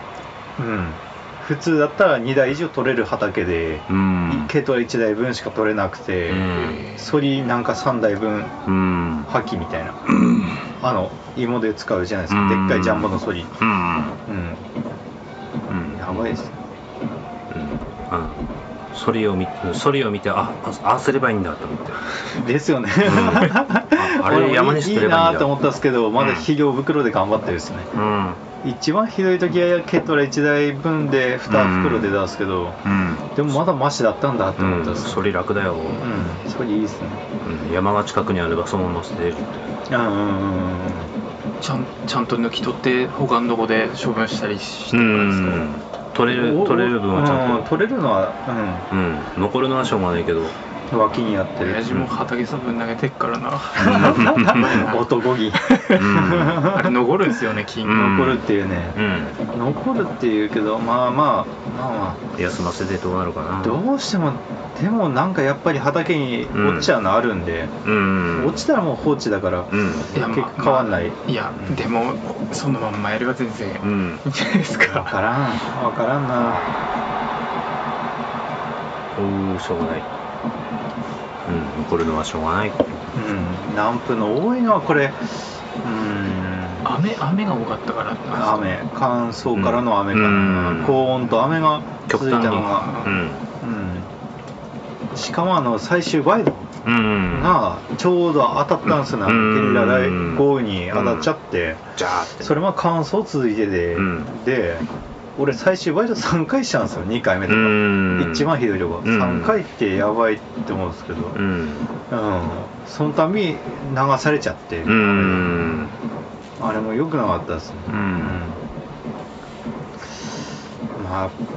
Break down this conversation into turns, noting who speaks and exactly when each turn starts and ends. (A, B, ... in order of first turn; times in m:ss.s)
0:00.6-0:08.5 A
0:03.9-0:04.5 B
0:06.3-0:06.8 B
0:06.5-0:07.2 C
0:08.6-0:09.3 B
0:09.2-0:10.0 A
0:10.8-0:13.6 A
0:12.3-0:14.2 B
0:14.2-0:14.6 A
0:15.7-0:16.2 B
0:15.9-0:16.6 A
0:17.5-0:22.0 B
0:22.3-0:27.9 A
0:23.0-0:25.5 B
0:26.2-0:26.5 B
0:27.9-0:28.4 B
0:28.6-0:32.8 A
0:31.4-0:32.1 B
0:32.8-0:33.6 B
0:33.3-0:35.2 A
0:34.6-0:36.1 B
0:36.0-0:37.2 A
0:37.4-0:39.7 B
0:39.9-0:41.1 A
0:41.6-0:45.7 C
0:44.9-0:47.7 B
0:46.2-0:48.9 A
0:48.9-0:50.6 B
0:50.9-0:51.8 A
0:51.6-0:58.1 C
0:53.8-0:56.9 A
0:53.8-0:54.8 B
0:55.9-0:56.7 B
0:57.8-0:59.4 B
0:57.9-0:59.0 A
0:59.5-1:02.2 A
1:02.3-1:03.8 B
1:03.6-1:07.8 A
1:06.5-1:06.9 B
1:07.8-1:08.6 B
1:08.3-1:11.8 A
1:09.7-1:10.1 B
1:10.1-1:15.1 C
1:13.8-1:14.2 B
1:14.8-1:16.7 A
1:19.1-1:20.1 B
1:21.4-1:23.0 B
1:23.1-1:27.0 A
1:26.8-1:28.8 C
1:28.3-1:33.0 A
1:29.5-1:31.0 B
1:32.1-1:33.4 B
1:32.6-1:33.1 C
1:33.6-1:34.1 A
1:35.1-1:36.7 A
1:36.8-1:37.6 B
1:37.3-1:41.8 A
1:39.2-1:41.3 B
1:42.0-1:42.5 B
1:42.4-1:51.4 A
1:43.9-1:44.3 B
1:47.5-1:49.6 B
1:51.3-1:51.9 B
1:52.1-1:55.7 A
1:54.8-1:55.9 B
1:56.6-1:58.6 A
1:57.9-1:58.4 B
2:00.9-2:01.4 A